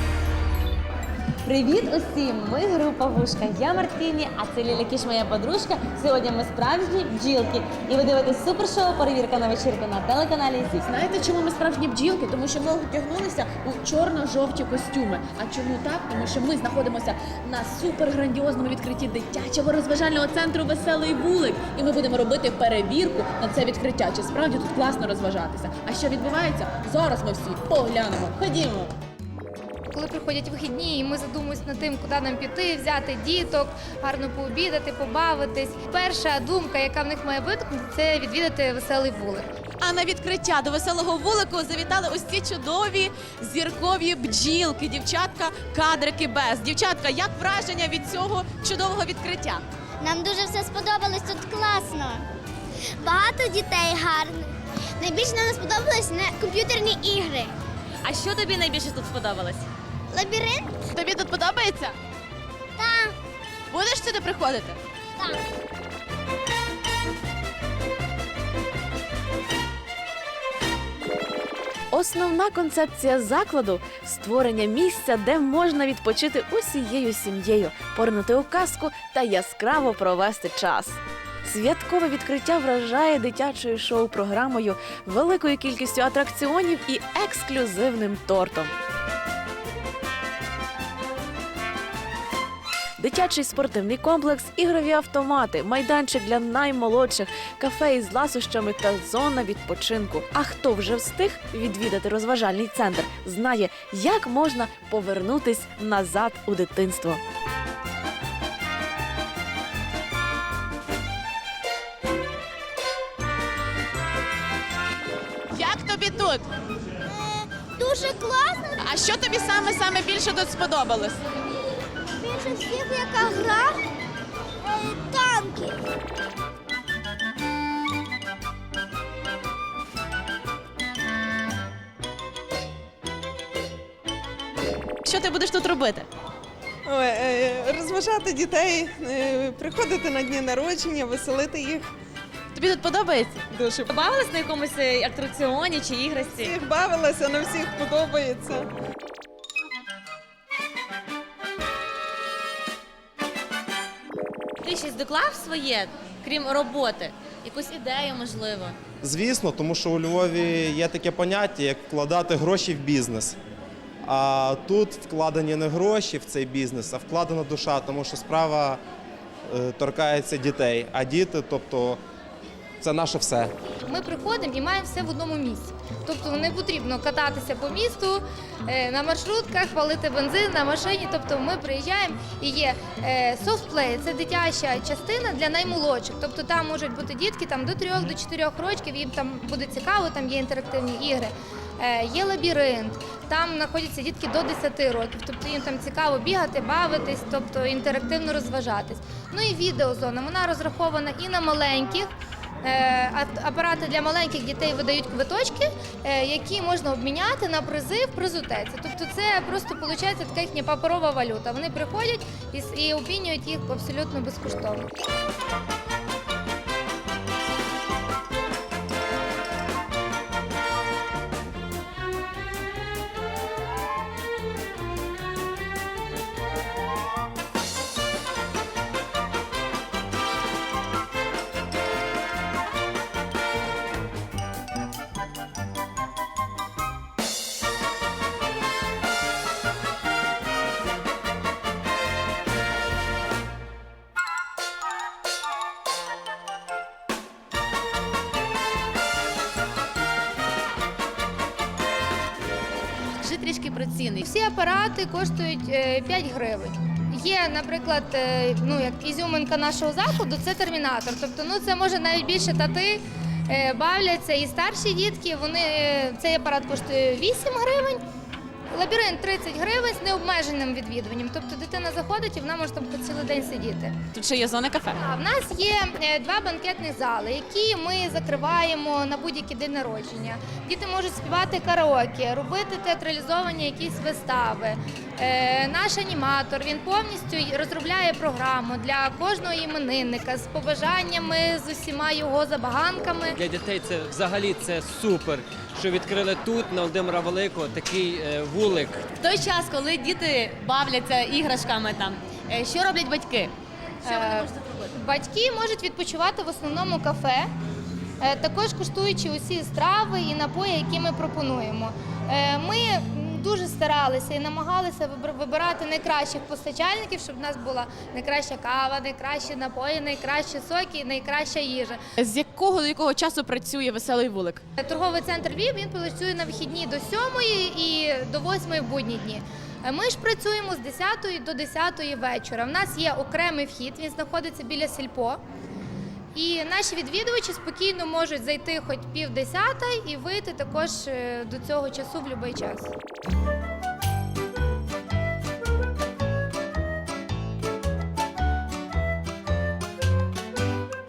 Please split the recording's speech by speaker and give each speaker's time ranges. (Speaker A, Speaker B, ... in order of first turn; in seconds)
Speaker A: 1.4-10.8, 58.0-59.7, 143.9-146.6, 154.6-158.8, 299.2-303.5, 304.0-304.9
Speaker B: 11.0-28.9, 39.8-49.6, 61.0-62.0, 63.7-64.8, 115.5-116.4, 118.8-121.2, 135.1-136.1, 142.5-143.5, 253.2-254.2, 274.1-275.0, 322.2-324.6
Speaker C: 29.9-39.5, 173.8-214.9, 254.2-268.0, 268.7-273.9, 274.9-293.4, 304.0-307.5, 308.2-322.0, 324.8-335.4, 336.3-342.9
Speaker D: 50.0-52.2, 53.0-54.4, 55.0-57.5, 60.1-60.7, 62.8-63.1, 117.2-118.9, 122.2-123.8, 124.6-125.8
Speaker E: 71.9-88.8, 93.0-107.2
Speaker F: 136.8-141.9, 143.5-143.8, 146.4-148.7
Speaker G: 159.0-163.3, 164.1-168.8, 169.5-172.0, 172.8-173.5
Speaker H: 293.4-299.0